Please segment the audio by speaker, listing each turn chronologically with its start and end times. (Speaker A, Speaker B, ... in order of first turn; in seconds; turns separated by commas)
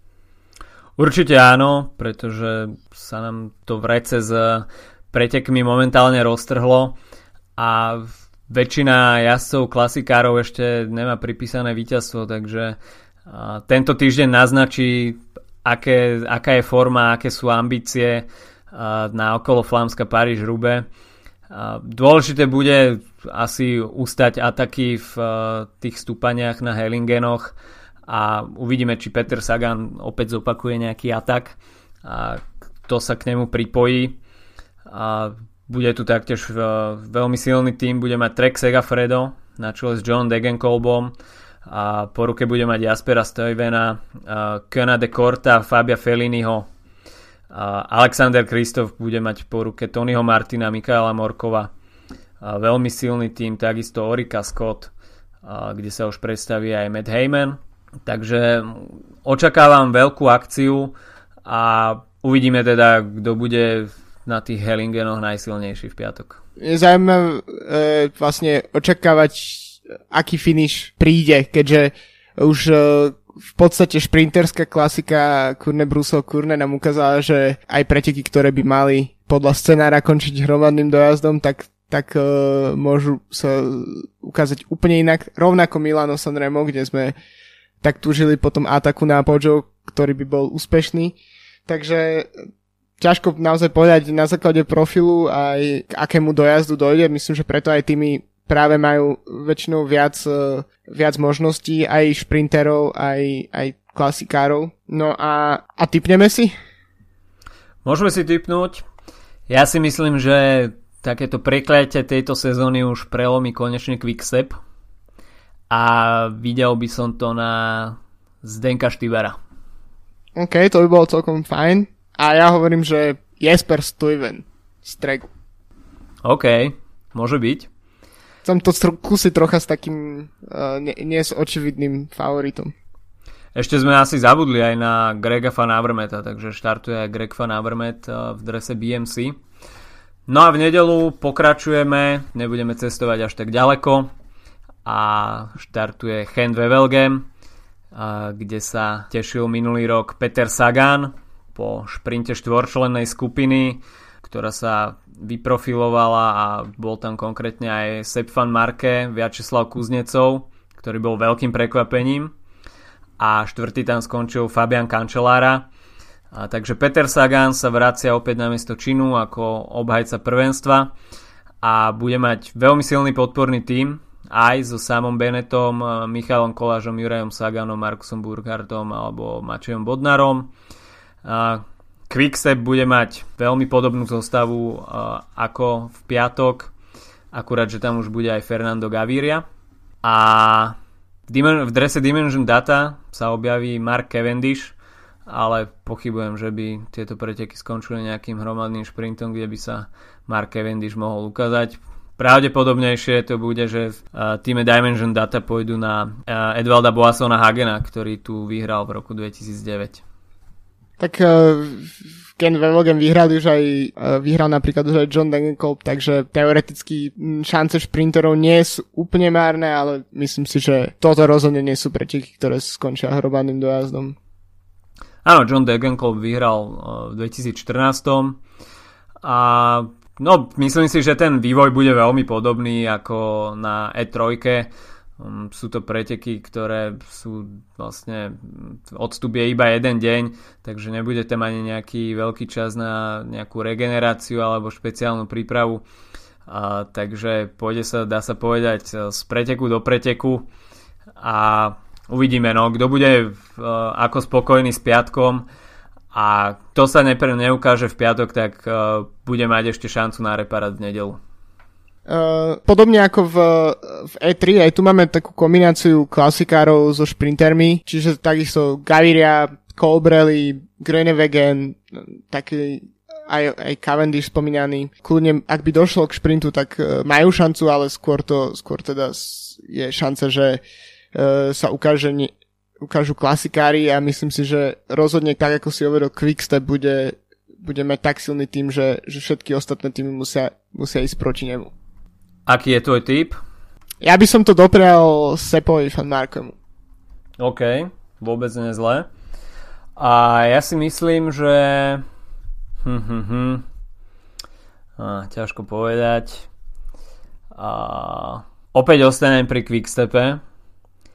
Speaker A: 1.0-7.0, Speaker A: 7.6-20.9, Speaker A: 21.5-27.5, Speaker A: 28.1-34.2, Speaker A: 34.9-41.1, Speaker A: 41.6-46.7, Speaker A: 47.5-51.7, Speaker A: 52.4-54.9, Speaker A: 55.4-60.9, Speaker A: 61.5-66.4, Speaker B: 66.6-87.1, Speaker B: 87.8-91.2, Speaker B: 91.7-92.3, Speaker B: 93.0-106.5, Speaker A: 107.8-108.8, Speaker A: 109.5-114.6, Speaker A: 115.7-119.4, Speaker B: 120.3-125.3, Speaker A: 126.2-127.7, Speaker B: 128.4-132.7, Speaker A: 133.5-139.3, Speaker A: 140.3-144.1, Speaker A: 144.8-147.2, Speaker A: 147.9-162.3, Speaker A: 163.2-165.7, Speaker A: 166.3-170.9, Speaker A: 171.6-180.5, Speaker A: 181.2-186.7, Speaker A: 187.3-189.4, Speaker A: 190.0-190.8, Speaker A: 191.3-194.7, Speaker A: 195.3-210.0, Speaker B: 211.0-224.2, Speaker A: 225.2-228.4, Speaker A: 229.2-245.8, Speaker A: 246.5-250.5, Speaker A: 251.2-255.4, Speaker A: 256.1-261.2, Speaker B: 262.1-280.6, Speaker B: 281.1-291.7, Speaker A: 292.5-293.4, Speaker B: 294.0-296.5, Speaker A: 297.4-299.1, Speaker A: 300.0-302.0, Speaker A: 302.8-303.6, Speaker A: 305.0-306.5, Speaker A: 307.5-310.4